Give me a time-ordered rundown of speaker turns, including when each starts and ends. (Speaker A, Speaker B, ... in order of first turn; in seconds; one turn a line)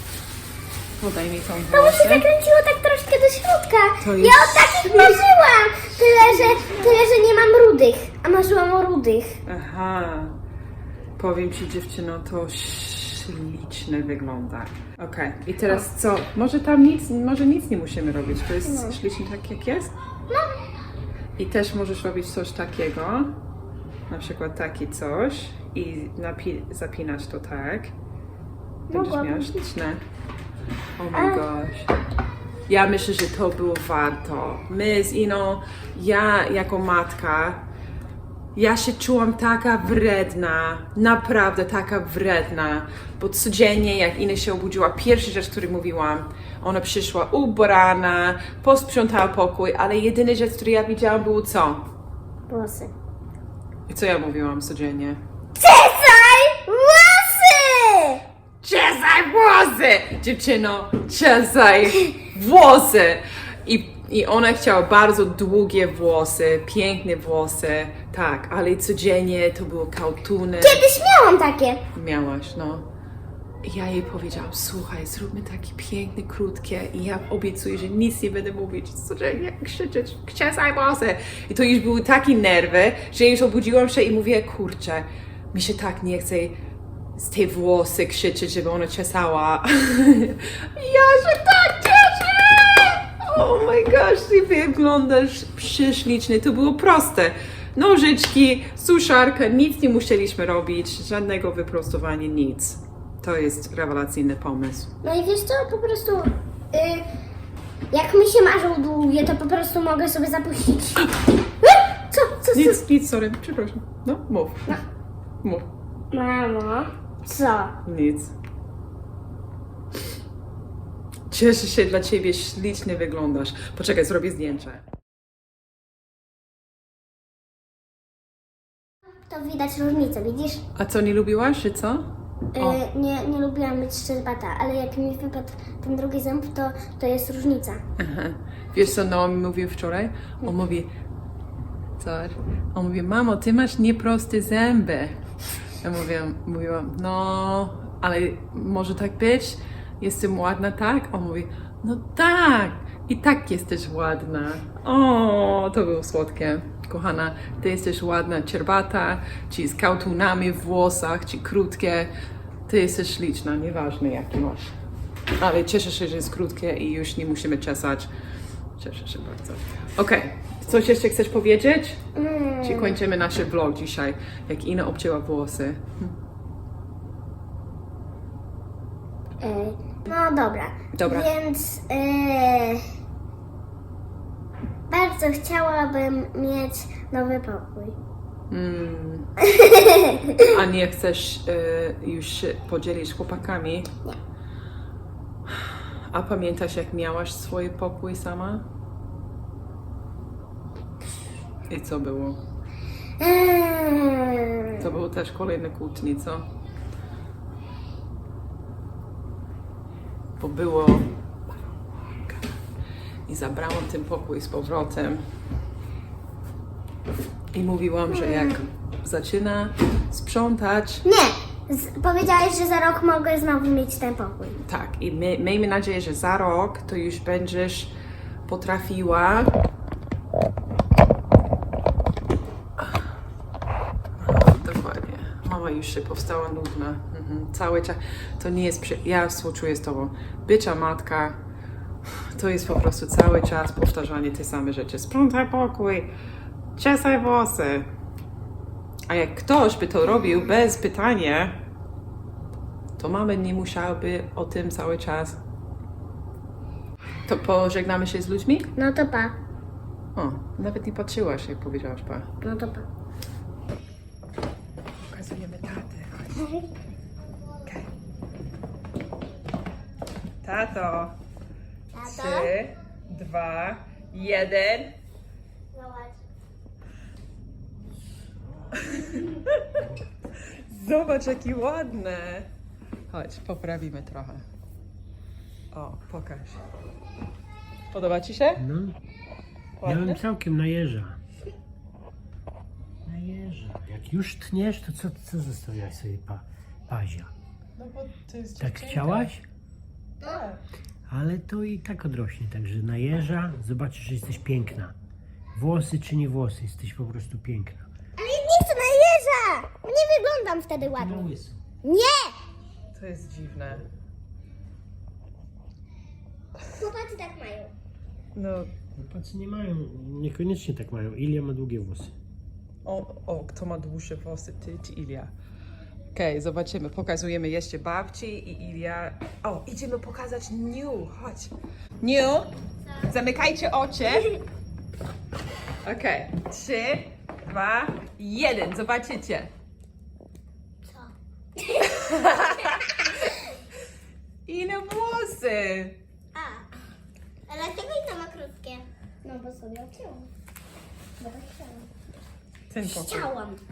Speaker A: 1.0-2.2
Speaker B: 1.7-9.4
Speaker A: 4.0-5.2
Speaker A: 9.4-10.4
Speaker A: 11.2-19.9
Speaker B: 18.6-19.0
Speaker B: 20.3-20.5
Speaker A: 21.4-23.3
Speaker A: 24.1-27.9
Speaker A: 28.9-30.0
Speaker B: 28.9-29.6
Speaker A: 31.0-31.9
Speaker B: 31.1-31.4
Speaker A: 32.7-37.6
Speaker A: 38.5-51.8
Speaker B: 52.5-52.9
Speaker A: 53.9-55.2
Speaker B: 55.6-58.2
Speaker A: 58.6-70.8
Speaker B: 70.6-71.8
Speaker A: 71.9-72.9
Speaker A: 73.6-86.6
Speaker A: 87.2-104.9
Speaker B: 105.0-107.0
Speaker B: 107.9-111.1
Speaker B: 111.6-112.8
Speaker A: 112.5-114.8
Speaker B: 116.1-117.7
Speaker A: 117.8-118.3
Speaker A: 121.3-124.8
Speaker B: 129.3-130.6
Speaker A: 130.8-132.8
Speaker B: 132.5-137.8
Speaker A: 138.0-140.9
Speaker A: 142.0-145.2
Speaker A: 145.8-162.1
Speaker A: 162.7-164.7
Speaker A: 165.4-168.1
Speaker A: 168.8-172.0
Speaker B: 172.2-173.0
Speaker A: 172.6-176.1
Speaker B: 179.4-182.8
Speaker A: 180.9-181.3
Speaker B: 184.9-187.9
Speaker A: 188.5-189.3
Speaker B: 189.5-190.4
Speaker A: 190.4-193.9
Speaker A: 195.5-198.7
Speaker A: 201.7-202.4
Speaker B: 203.2-204.8
Speaker A: 204.8-206.5
Speaker A: 210.4-212.5
Speaker A: 213.3-215.2
Speaker A: 217.5-221.0
Speaker B: 218.1-218.6
Speaker B: 221.0-224.6
Speaker A: 224.6-227.9
Speaker A: 228.4-229.5
Speaker A: 234.2-241.4
Speaker A: 242.3-246.1
Speaker A: 246.8-247.9
Speaker A: 249.1-251.6
Speaker A: 253.0-255.4
Speaker A: 257.2-258.7
Speaker B: 258.8-259.4
Speaker A: 260.1-262.3
Speaker B: 262.4-262.9
Speaker A: 265.1-266.5
Speaker A: 270.4-271.1
Speaker B: 271.9-272.5
Speaker A: 272.0-274.9
Speaker B: 275.7-276.1
Speaker A: 278.7-279.8
Speaker A: 280.4-282.5
Speaker A: 283.1-284.4
Speaker A: 285.7-286.6
Speaker A: 287.9-288.6
Speaker C: 288.6-289.0
Speaker A: 289.8-290.2
Speaker C: 289.8-291.2
Speaker C: 293.0-297.3
Speaker A: 297.8-299.3
Speaker C: 298.6-299.4
Speaker A: 300.2-300.6
Speaker C: 301.1-304.9
Speaker C: 305.5-307.9
Speaker B: 308.2-311.3
Speaker C: 310.9-311.6
Speaker B: 311.8-312.4
Speaker A: 312.9-313.9
Speaker B: 316.8-317.7
Speaker A: 318.4-318.7
Speaker C: 318.9-322.1
Speaker A: 322.9-325.3
Speaker A: 326.1-334.4
Speaker A: 335.8-339.5
Speaker B: 340.9-342.3
Speaker A: 341.9-343.3
Speaker A: 344.4-346.0
Speaker B: 346.3-346.8
Speaker B: 347.5-350.3
Speaker B: 351.2-351.9
Speaker A: 352.7-353.3
Speaker B: 352.9-353.6